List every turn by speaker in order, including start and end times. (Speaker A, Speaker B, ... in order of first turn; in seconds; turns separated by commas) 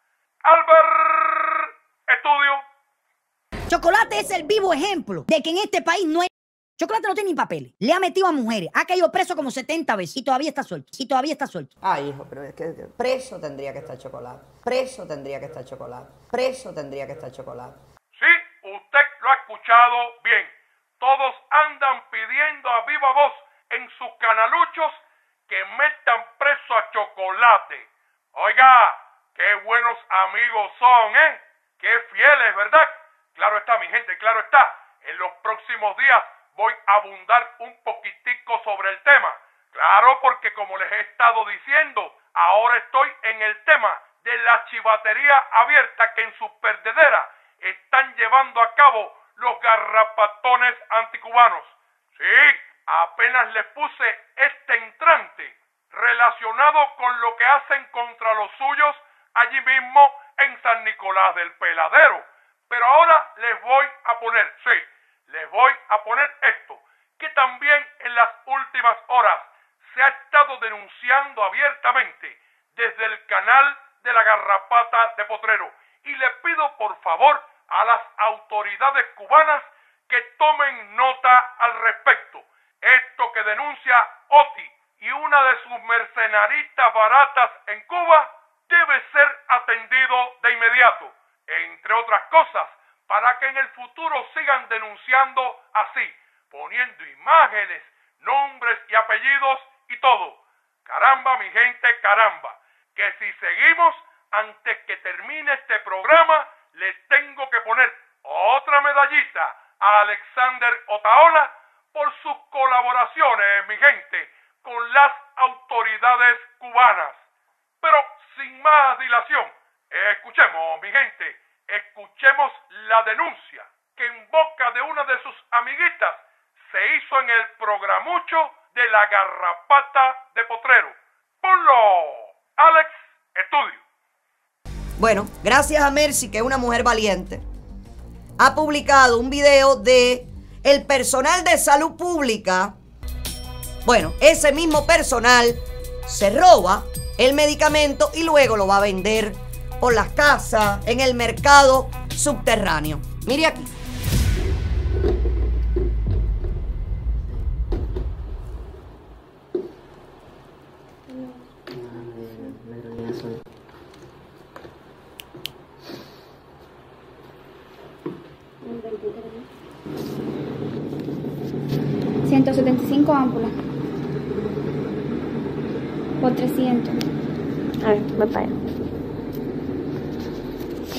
Speaker A: 0.4-2.6, Speaker B: 3.7-6.3, Speaker B: 6.8-11.7, Speaker C: 11.8-17.8, Speaker A: 18.1-117.2, Speaker A: 117.8-133.8, Speaker C: 135.0-137.4, Speaker C: 138.4-142.8, Speaker C: 143.8-153.7, Speaker D: 161.1-162.7, Speaker D: 168.6-169.5, Speaker E: 172.2-173.6, Speaker E: 176.2-177.0, Speaker D: 177.8-178.6